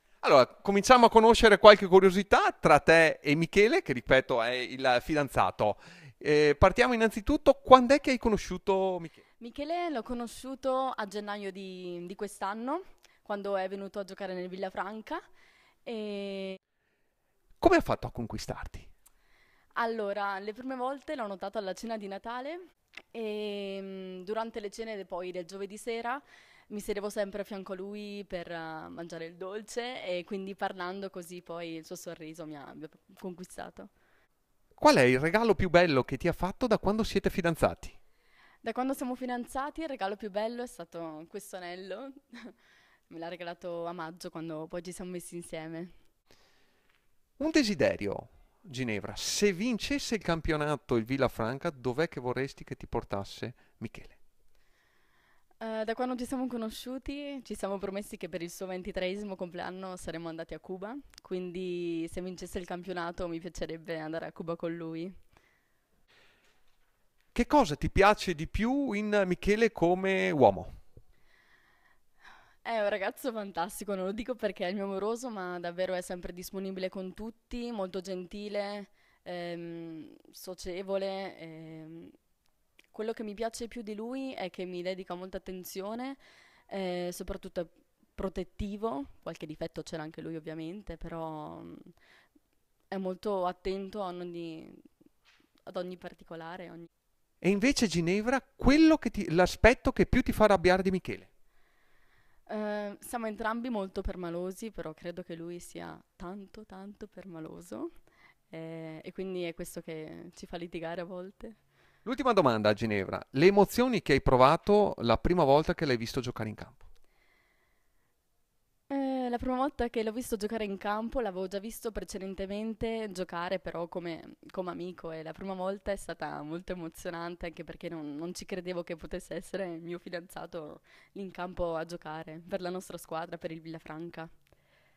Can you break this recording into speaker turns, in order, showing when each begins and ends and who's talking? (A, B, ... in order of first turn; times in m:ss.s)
0:00.2-0:09.2 A
0:09.4-0:15.2 B
0:15.8-0:16.6 B
0:17.6-0:18.9 A
0:19.8-0:22.6 B
0:23.1-0:33.9 B
0:34.8-0:37.9 A
0:38.6-0:42.5 B
0:43.1-0:45.9 B
0:47.4-0:54.2 A
0:55.6-1:05.1 B
1:07.3-1:10.8 A
1:12.6-1:22.1 B
1:22.9-1:31.9 B
1:32.9-1:34.9 B
1:35.6-1:36.9 B
1:37.4-1:41.3 A
1:42.5-1:47.9 B
1:48.5-1:51.6 B
1:52.0-1:56.8 A
1:58.9-2:14.3 B